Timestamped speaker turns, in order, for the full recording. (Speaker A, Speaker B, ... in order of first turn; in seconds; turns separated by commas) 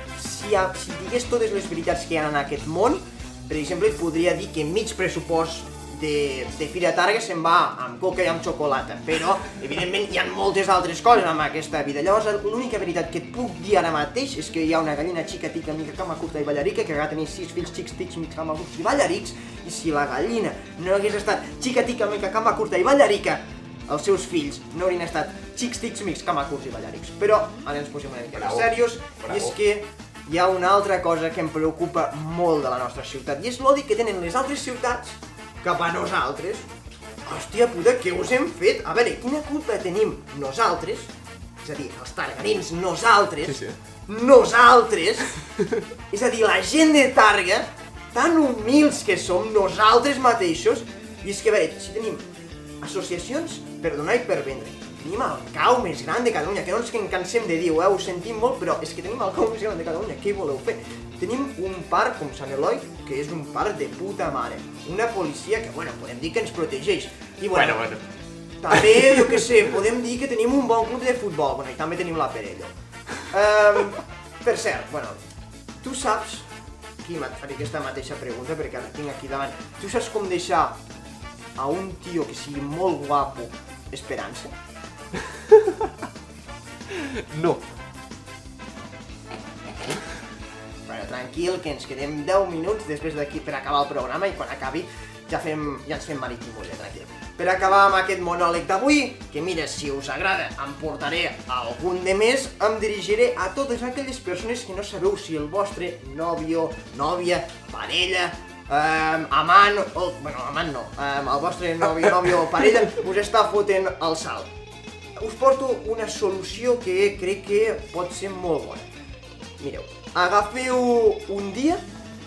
Speaker A: 0.1-36.7, Speaker B: 28.3-29.6, Speaker A: 37.2-41.1, Speaker A: 41.6-45.3, Speaker B: 43.4-43.8, Speaker B: 45.6-45.8, Speaker A: 46.1-52.2, Speaker A: 52.8-67.9, Speaker B: 67.5-68.0, Speaker A: 68.6-72.7, Speaker B: 68.7-69.4, Speaker A: 73.3-75.2, Speaker A: 75.8-76.5, Speaker A: 77.0-80.8, Speaker A: 81.5-84.5, Speaker B: 85.5-85.9, Speaker B: 86.9-87.6, Speaker A: 90.9-114.5, Speaker A: 115.2-118.9, Speaker A: 119.6-121.8